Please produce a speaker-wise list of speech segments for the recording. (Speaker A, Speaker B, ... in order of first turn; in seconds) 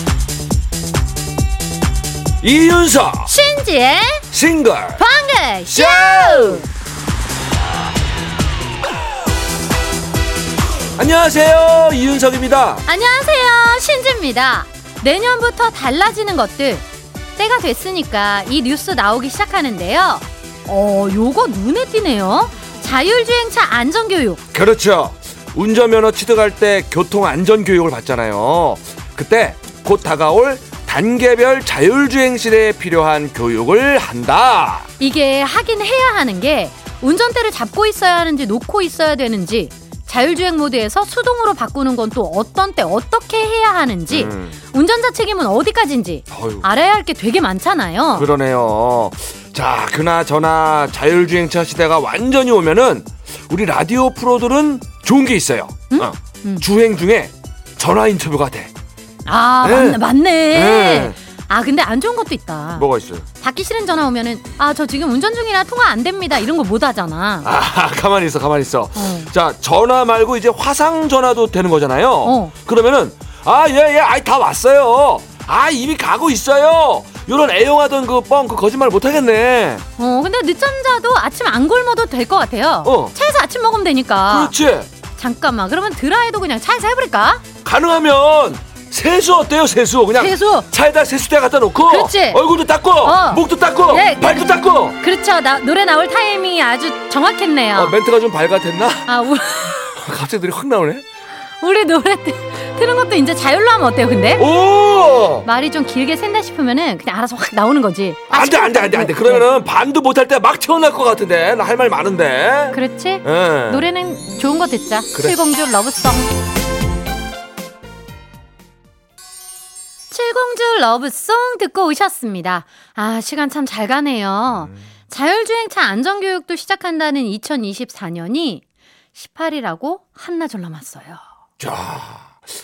Speaker A: 2.4-3.3, 4.3-5.0, 5.7-6.7, 10.9-12.8, 24.5-34.9, 44.1-44.6, 46.3-46.6, 48.1-58.7, 59.6-61.2, 62.8-63.3, 67.4-79.8, 82.8-83.1, 84.3-84.9, 87.6-95.0, 97.7-101.0, 104.4-105.5, 108.3-113.9, 131.6-132.4
Speaker B: 3.3-4.2, 5.0-6.7, 12.8-16.8, 17.4-24.4, 35.0-48.3, 55.9-56.6, 59.2-62.9, 63.4-67.5, 68.9-69.3, 72.2-72.5, 80.0-84.5, 85.2-87.4, 90.2-90.7, 91.8-92.4, 93.0-98.0, 99.0-99.9, 101.6-104.4, 105.4-109.5, 112.7-116.3, 120.1-128.6, 129.1-131.2